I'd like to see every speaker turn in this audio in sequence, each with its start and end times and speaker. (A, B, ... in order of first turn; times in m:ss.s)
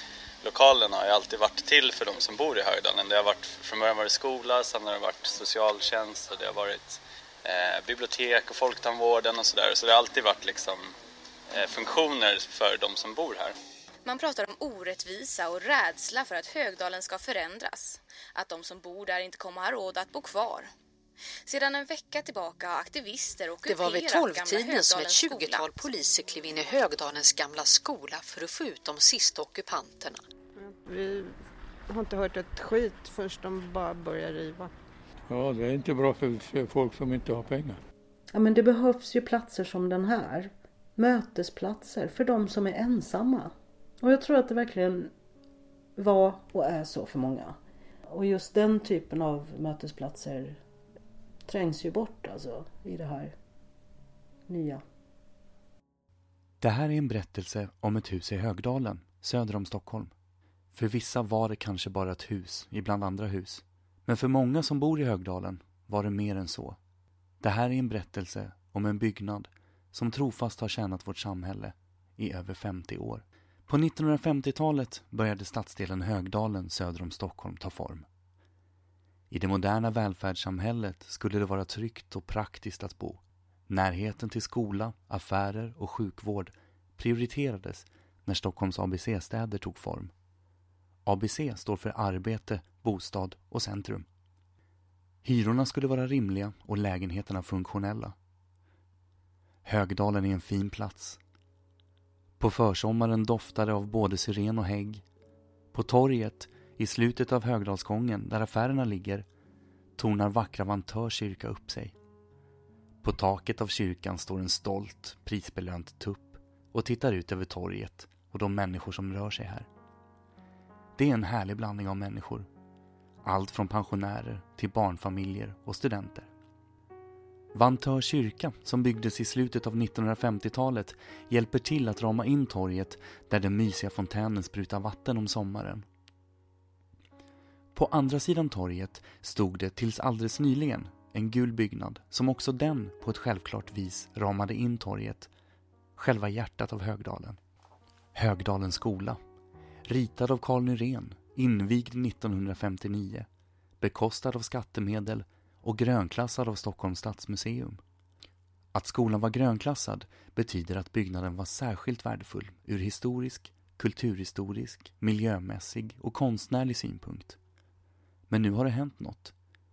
0:00.4-0:10.9 A
0:11.5-0:13.6 A
0:14.0-0:20.7 B
0:21.4-0:25.9 B
0:23.6-0:30.2 C
0:30.6-0:34.7 D
0:35.3-0:37.8 E
0:38.3-0:45.1 F
0:46.0-0:47.6 F
0:48.1-0:50.6 F
0:51.5-0:53.3 F
0:54.5-0:54.8 F
0:56.6-1:00.1 G
1:00.7-1:06.8 G
1:07.4-1:18.1 G
1:19.3-1:30.1 G
1:31.0-1:34.1 G
1:35.2-1:38.1 G
1:39.6-1:41.2 G
1:42.4-1:45.0 G
1:45.7-1:49.2 G
1:50.0-1:51.9 G
1:53.0-1:59.7 G
2:01.0-2:02.5 G
2:03.2-2:06.3 G
2:07.5-2:15.8 G
2:17.7-2:25.3 G
2:26.0-2:27.4 G
2:28.1-2:29.2 G
2:29.8-2:33.3 G
2:33.8-2:37.8 G
2:38.7-2:47.4 G
2:48.3-2:49.3 G